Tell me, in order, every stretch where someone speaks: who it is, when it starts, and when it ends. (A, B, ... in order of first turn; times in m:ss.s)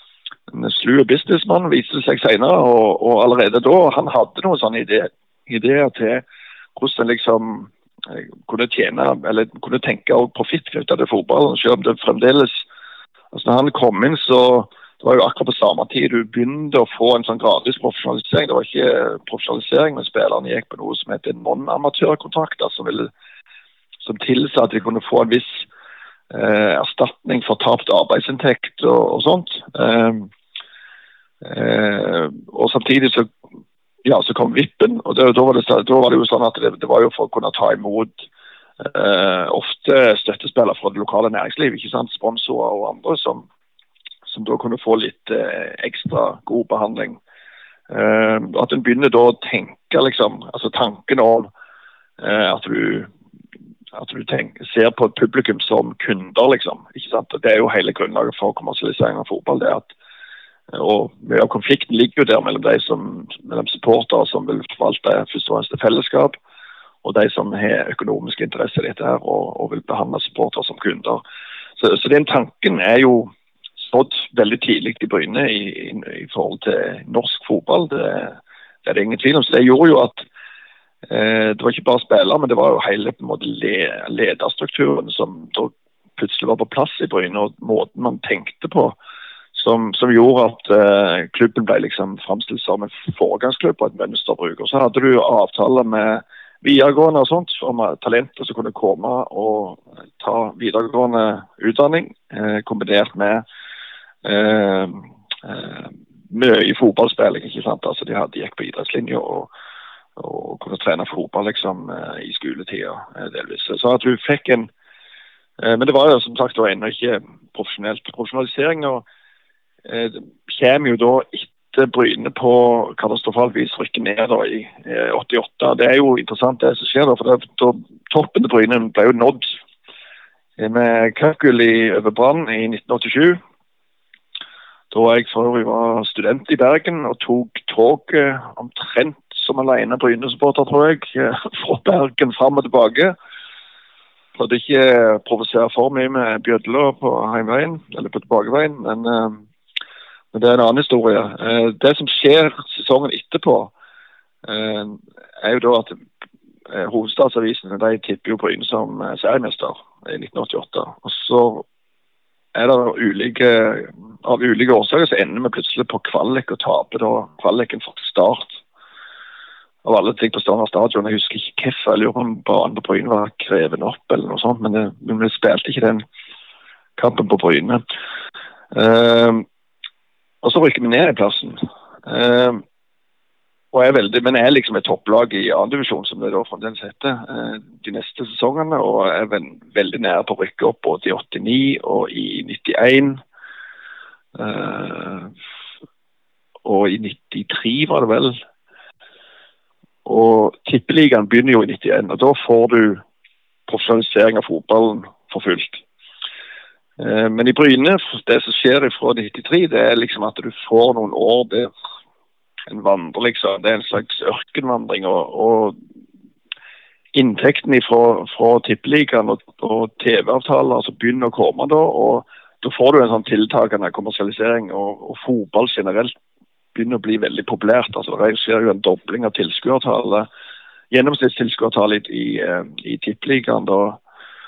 0:00.5-0:06.2 A
0:06.8-0:12.7 A
0:13.3-0:23.1 A
0:24.0-0:25.7 A
0:26.3-0:30.3 A
0:31.4-0:33.3 A
0:34.0-0:38.3 A
0:38.8-0:43.5 A
0:44.3-0:47.2 A
0:47.9-0:51.5 A
0:52.2-0:53.1 A
0:53.9-0:59.9 A
1:00.7-1:06.4 A
1:07.0-1:11.2 A
1:11.8-1:20.2 A
1:21.1-1:29.0 A
1:29.5-1:43.4 A
1:44.2-1:49.5 A
1:50.2-1:54.7 A
1:55.6-1:59.0 A
1:59.9-2:09.6 A
2:10.6-2:13.4 A
2:14.9-2:23.2 A
2:24.4-2:29.4 A
2:30.3-2:33.7 A
2:34.4-2:36.0 A
2:36.7-2:41.7 A
2:42.5-2:48.6 A
2:49.8-2:56.0 A
2:57.0-2:57.8 A
2:58.7-2:59.5 A
3:00.4-3:02.6 A
3:03.7-3:13.2 A
3:14.4-3:15.3 A
3:16.6-3:18.4 A
3:20.0-3:23.0 A
3:23.7-3:25.8 A
3:27.0-3:31.7 A
3:32.7-3:35.8 A
3:37.1-3:46.1 A
3:46.8-3:50.3 A
3:50.9-3:54.0 A